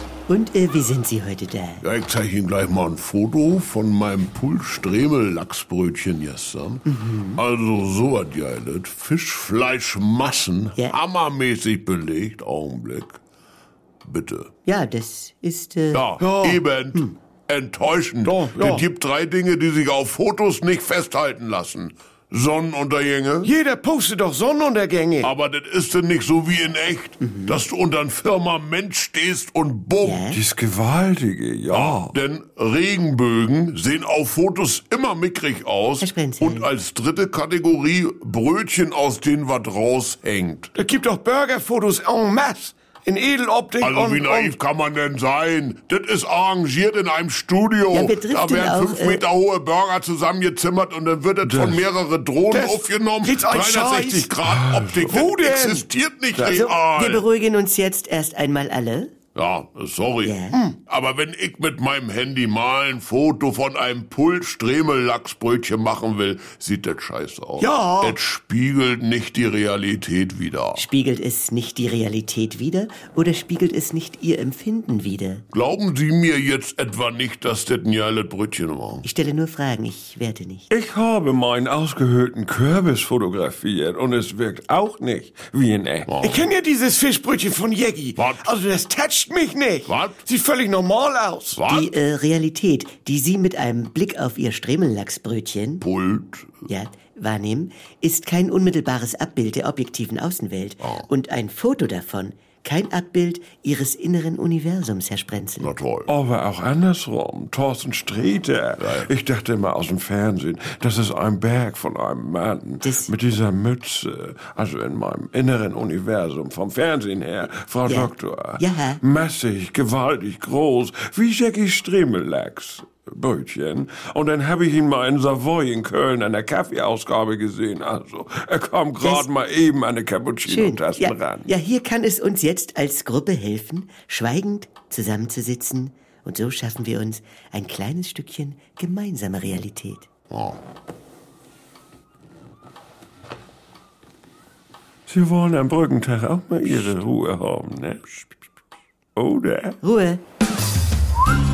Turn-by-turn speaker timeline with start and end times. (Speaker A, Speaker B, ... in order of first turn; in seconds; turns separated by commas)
Speaker A: 0.3-1.8, Speaker B: 1.8-6.8, Speaker A: 6.9-7.4, Speaker B: 7.4-13.2, Speaker B: 14.1-14.5, Speaker A: 14.7-16.1, Speaker B: 15.9-23.5, Speaker C: 16.2-16.6, Speaker C: 18.2-18.9, Speaker C: 23.4-25.3, Speaker B: 25.4-30.2, Speaker A: 27.2-27.6, Speaker A: 30.0-30.4, Speaker D: 30.3-32.1, Speaker B: 31.7-40.7, Speaker A: 36.0-36.7, Speaker C: 40.8-44.6, Speaker B: 43.8-57.2, Speaker A: 47.9-49.2, Speaker D: 51.4-51.9, Speaker C: 52.5-54.4, Speaker D: 54.4-55.0, Speaker C: 55.0-55.9, Speaker A: 56.4-59.1, Speaker B: 59.4-60.4, Speaker A: 60.2-60.6, Speaker C: 60.5-60.8, Speaker B: 60.9-70.8, Speaker C: 67.6-68.2, Speaker A: 70.8-75.5, Speaker B: 75.5-79.0, Speaker A: 79.0-80.7, Speaker D: 80.7-86.1, Speaker B: 86.1-86.4, Speaker C: 86.2-91.6, Speaker B: 88.2-88.5, Speaker B: 89.9-90.2, Speaker B: 91.6-91.9, Speaker A: 91.7-95.8, Speaker B: 95.8-96.6, Speaker A: 96.7-105.7, Speaker B: 105.6-106.1, Speaker D: 106.1-131.5, Speaker A: 112.8-113.1, Speaker A: 117.9-119.0, Speaker A: 129.0-129.3, Speaker A: 130.5-140.1, Speaker B: 140.3-140.6, Speaker D: 145.1-148.3, Speaker D: 149.2-149.8, Speaker A: 149.8-150.2